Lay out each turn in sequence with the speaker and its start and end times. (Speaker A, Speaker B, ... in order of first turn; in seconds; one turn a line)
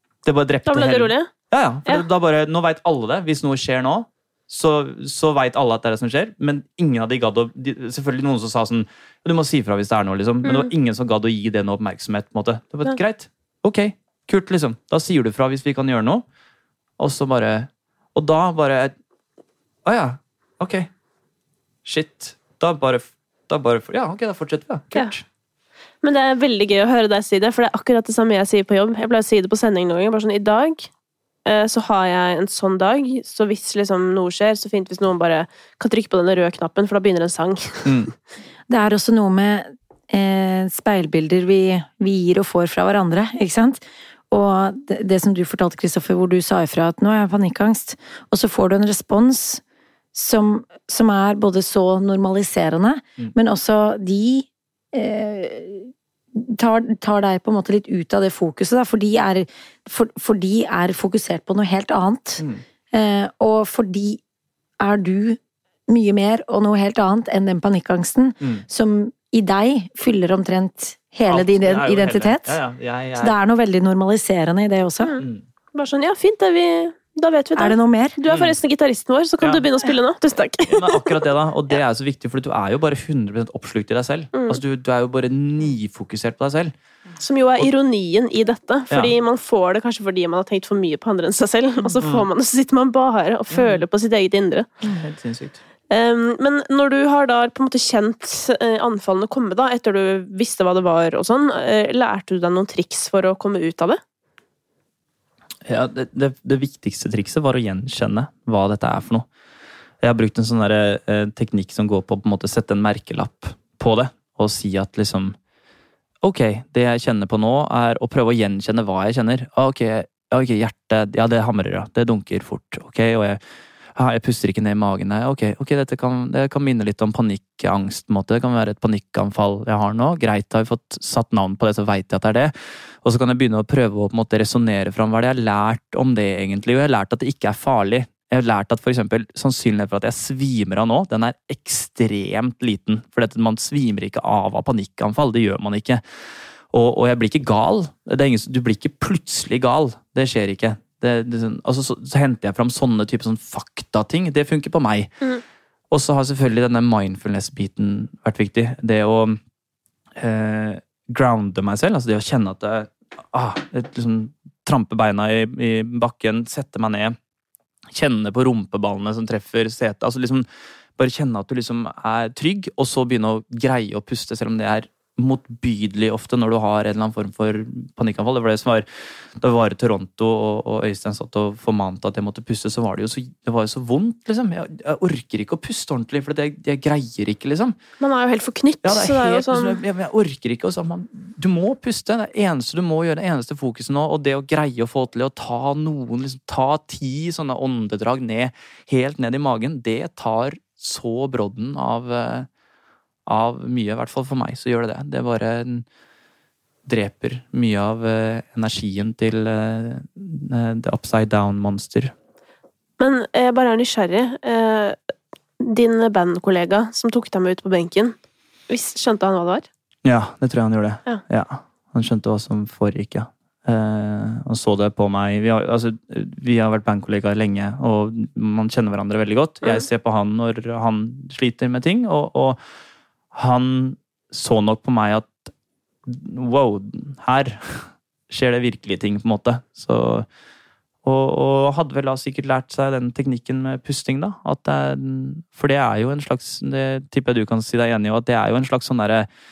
Speaker A: 0.2-16.2
Speaker B: 0.7-1.3
Speaker B: 10.4-10.7
Speaker A: 17.0-18.9
Speaker A: 19.9-20.9
Speaker A: 21.9-25.2
Speaker B: 26.0-30.9
Speaker B: 31.4-38.1
Speaker A: 37.9-38.1
Speaker C: 38.7-49.6
Speaker C: 50.1-64.2
Speaker C: 64.8-72.6
Speaker A: 71.3-73.4
Speaker C: 73.2-75.2
Speaker B: 75.0-81.2
Speaker C: 77.6-78.2
Speaker A: 78.3-78.6
Speaker A: 80.7-86.7
Speaker B: 84.3-84.6
Speaker B: 87.2-94.7
Speaker A: 93.5-93.8
Speaker A: 94.8-95.6
Speaker B: 95.9-104.0
Speaker A: 105.7-109.3
Speaker A: 110.0-115.4
Speaker A: 116.2-123.4
Speaker A: 124.0-146.0
Speaker A: 146.7-155.3
Speaker A: 155.9-159.4
Speaker A: 160.2-167.2
Speaker A: 167.9-170.5
Speaker A: 171.0-178.9
Speaker A: 179.4-187.8
Speaker B: 188.0-189.8
Speaker A: 188.8-202.5
Speaker A: 203.3-205.8
Speaker A: 206.8-212.1
Speaker B: 213.0-215.0
Speaker B: 215.6-218.2
Speaker B: 218.7-219.7
Speaker A: 220.0-232.6
Speaker A: 233.3-235.5
Speaker A: 236.1-240.3
Speaker A: 241.0-249.3